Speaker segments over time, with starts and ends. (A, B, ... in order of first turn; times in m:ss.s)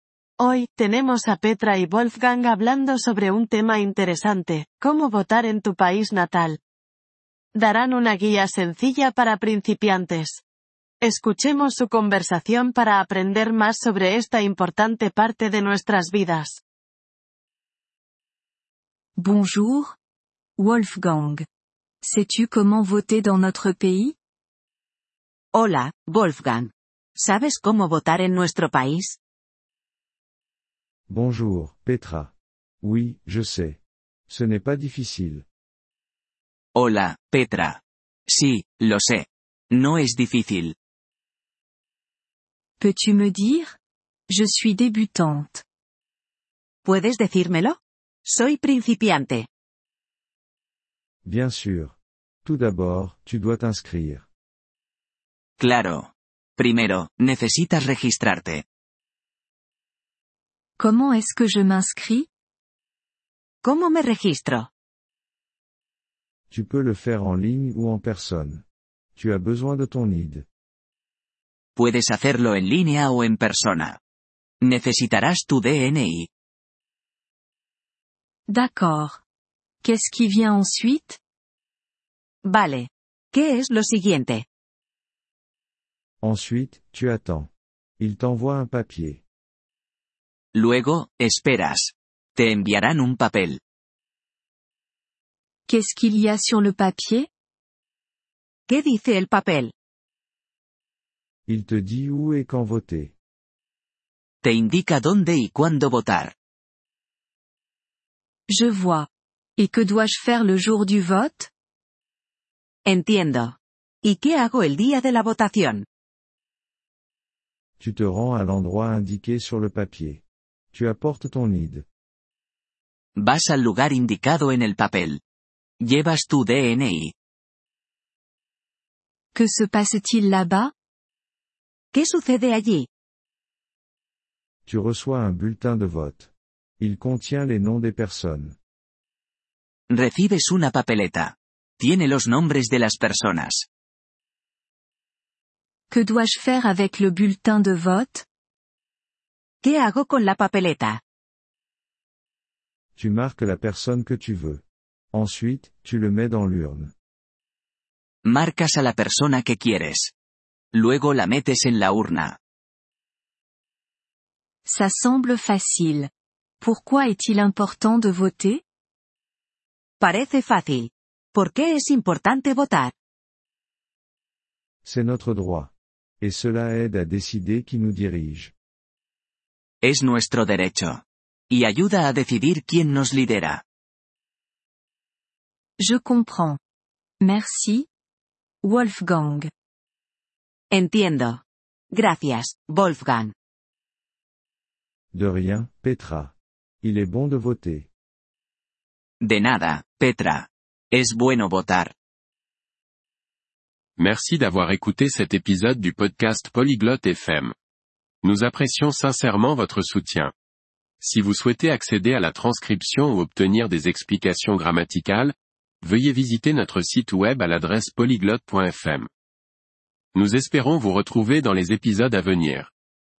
0:00.4-0:06.6 A
0:00.8-0:01.5 B
0:02.8-0:03.6 B
0:04.3-0:05.0 B
0:07.6-0:08.0 B
0:07.6-0:09.1 A
0:08.5-0:10.4 B
0:09.8-0:10.4 A
0:11.0-0:16.6 B
0:11.4-0:11.8 A
0:12.3-0:12.7 A
0:13.8-0:15.0 A
0:19.2-0:19.9 C
0:20.6-0:21.4 C
0:22.0-0:24.2 C
0:25.5-0:29.2 B
0:31.1-0:35.4 D
0:36.7-0:40.7 E
0:42.8-0:43.8 C
0:44.3-0:45.6 C
0:46.8-0:49.5 B
0:51.2-0:54.2 D
0:55.6-0:58.6 E
1:00.8-1:02.3 C
1:03.6-1:04.7 B
1:06.5-1:08.6 D
1:09.2-1:10.4 D
1:11.8-1:14.0 E
1:14.6-1:16.3 E
1:18.5-1:19.2 C
1:19.8-1:21.2 C
1:22.4-1:24.4 B
1:26.2-1:29.2 D
1:30.5-1:33.6 E
1:35.7-1:37.3 C
1:38.7-1:39.7 B
1:41.5-1:43.1 D
1:44.4-1:46.3 E
1:48.5-1:51.5 C
1:52.8-1:55.8 B
1:57.8-2:01.8 D
2:03.2-2:05.2 E
2:05.8-2:07.1 E
2:09.3-2:10.7 C
2:11.9-2:12.9 B
2:14.6-2:16.3 D
2:16.8-2:18.6 D
2:19.9-2:23.7 E
2:25.9-2:28.2 C
2:29.6-2:31.0 B
2:33.0-2:36.9 D
2:38.2-2:40.1 E
2:40.7-2:42.4 E
2:44.6-2:48.6 C
2:50.0-2:52.9 B
2:54.8-2:58.5 D
2:59.8-3:03.6 E
3:05.8-3:06.6 C
3:07.2-3:07.9 C
3:08.6-3:09.5 C
3:10.7-3:11.4 B
3:11.9-3:13.3 B
3:15.1-3:17.9 D
3:19.2-3:21.9 E
3:24.0-3:27.5 F
3:28.2-3:30.3 F
3:31.0-3:39.1 F
3:40.1-3:42.7 F